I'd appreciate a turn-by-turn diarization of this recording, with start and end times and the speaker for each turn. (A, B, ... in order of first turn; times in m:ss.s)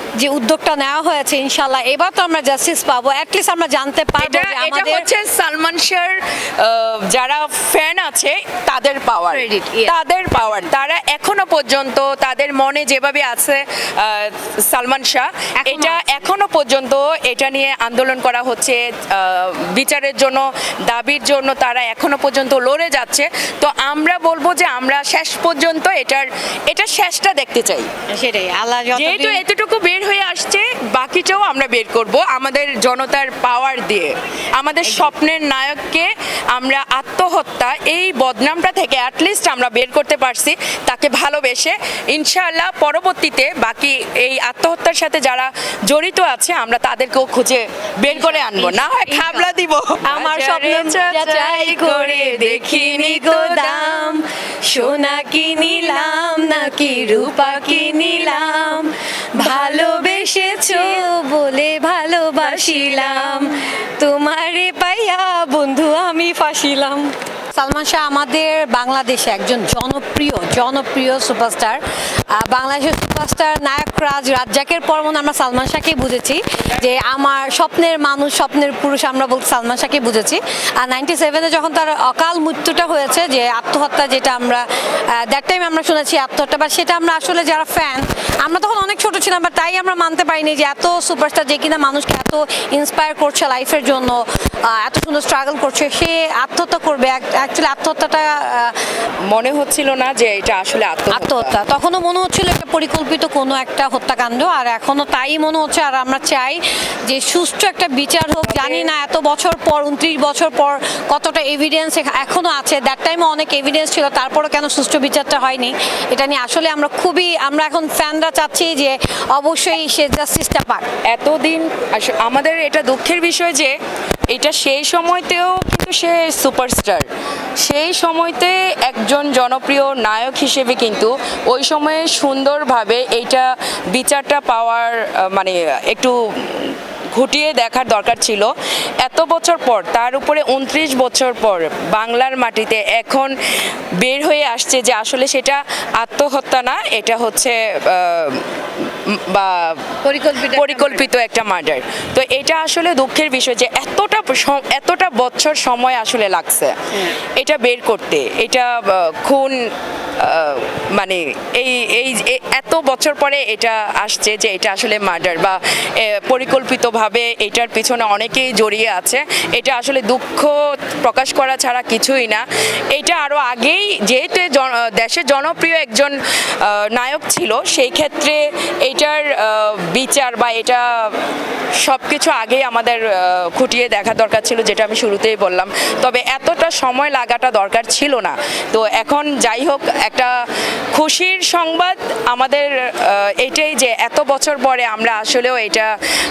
0:00.2-0:05.0 A
0:04.2-0:27.9 B
0:09.3-0:09.9 A
0:15.6-0:16.1 A
0:28.1-0:29.4 A
0:28.9-0:54.2 B
0:34.8-0:35.1 A
0:48.1-0:49.5 A
0:50.0-1:38.8 A
1:00.7-1:01.0 B
1:02.4-1:03.4 B
1:39.3-1:41.5 B
1:41.1-2:00.8 A
1:48.4-1:48.9 B
2:01.1-2:03.7 B
2:04.3-2:07.1 B
2:07.6-2:23.3 B
2:24.0-2:28.5 B
2:29.1-2:30.0 B
2:30.0-2:31.1 A
2:30.5-2:39.6 B
2:40.2-3:01.2 B
3:01.8-3:10.3 B
3:10.9-3:15.9 B